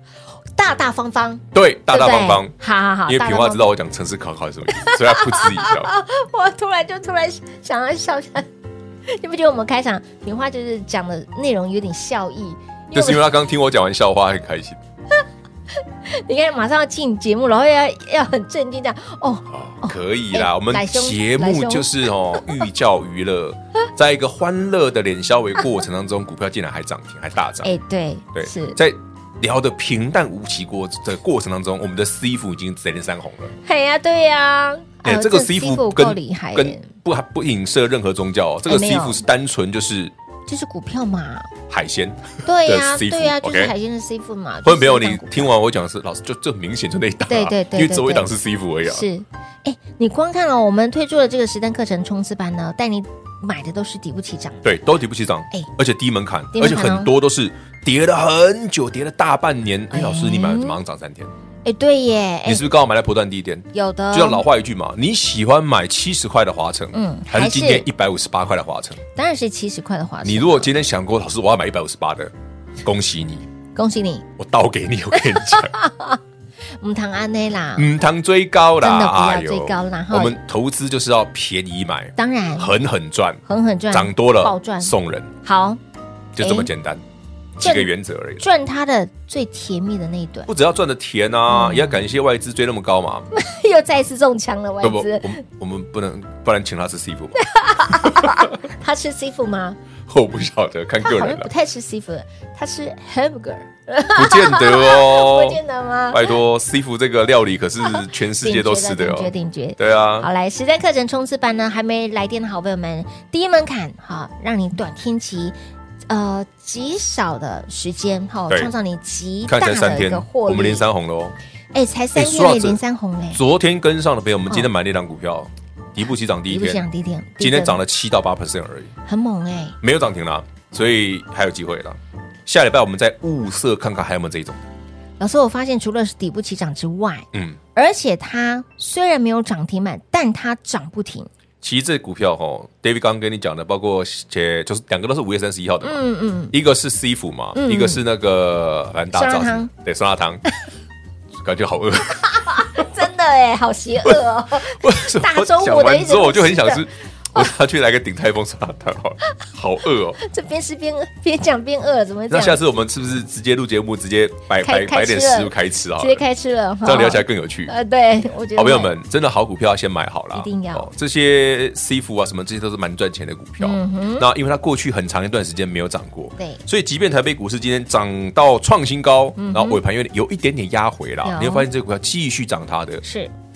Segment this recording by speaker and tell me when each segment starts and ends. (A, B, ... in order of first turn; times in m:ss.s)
0:00.6-0:03.6 A
0:01.5-0:02.5 B
0:03.0-0:05.9 B
0:04.7-0:08.5 A
0:09.1-0:13.2 A
0:12.9-0:14.8 B
0:16.1-0:22.0 A
0:19.5-0:27.7 B
0:27.6-0:28.8 A
0:28.3-0:33.5 B
0:33.6-0:36.9 A
0:35.0-0:40.1 B
0:38.7-0:39.2 A
0:40.5-0:41.5 A
0:41.7-0:43.7 B
0:42.4-0:45.5 A
0:44.6-0:49.0 B
0:47.3-0:48.3 A
0:48.8-0:54.6 A
0:54.6-1:01.3 B
0:56.5-0:57.1 A
0:59.9-1:00.8 A
1:01.6-1:02.6 A
1:02.4-1:09.0 B
1:03.7-1:04.4 A
1:06.9-1:07.8 A
1:09.2-1:10.7 A
1:10.2-1:13.5 B
1:13.8-1:14.3 A
1:14.4-1:15.8 B
1:15.3-1:16.2 A
1:16.8-1:17.9 A
1:17.8-1:25.3 B
1:18.8-1:20.4 A
1:22.2-1:22.7 A
1:23.5-1:24.9 A
1:25.4-1:25.8 A
1:26.4-1:27.0 B
1:26.4-1:26.7 A
1:27.6-1:28.4 B
1:27.6-1:30.5 A
1:30.5-1:33.3 B
1:31.5-1:32.0 A
1:33.3-1:35.4 A
1:34.8-1:38.5 B
1:37.4-1:39.8 A
1:40.1-1:41.5 B
1:41.0-1:46.3 A
1:44.1-1:45.6 B
1:46.1-1:50.3 B
1:47.8-1:55.5 A
1:56.1-2:00.8 A
1:59.5-2:01.4 B
2:01.7-2:03.4 A
2:02.1-2:02.8 B
2:03.3-2:06.8 B
2:06.5-2:07.8 A
2:07.4-2:08.9 B
2:09.0-2:09.8 A
2:09.8-2:14.7 B
2:15.2-2:21.3 A
2:17.3-2:17.6 B
2:21.6-2:30.4 B
2:25.8-2:26.5 A
2:27.5-2:28.0 A
2:29.1-2:29.7 A
2:31.4-2:32.9 B
2:32.2-2:36.8 A
2:34.0-2:40.2 B
2:40.2-2:42.6 A
2:42.3-2:46.2 B
2:44.6-2:48.9 A
2:46.8-2:47.7 B
2:48.5-3:03.0 B
2:50.3-2:50.9 A
2:53.6-2:54.3 A
2:59.4-2:59.8 A
3:01.2-3:01.7 A
3:03.0-3:03.3 A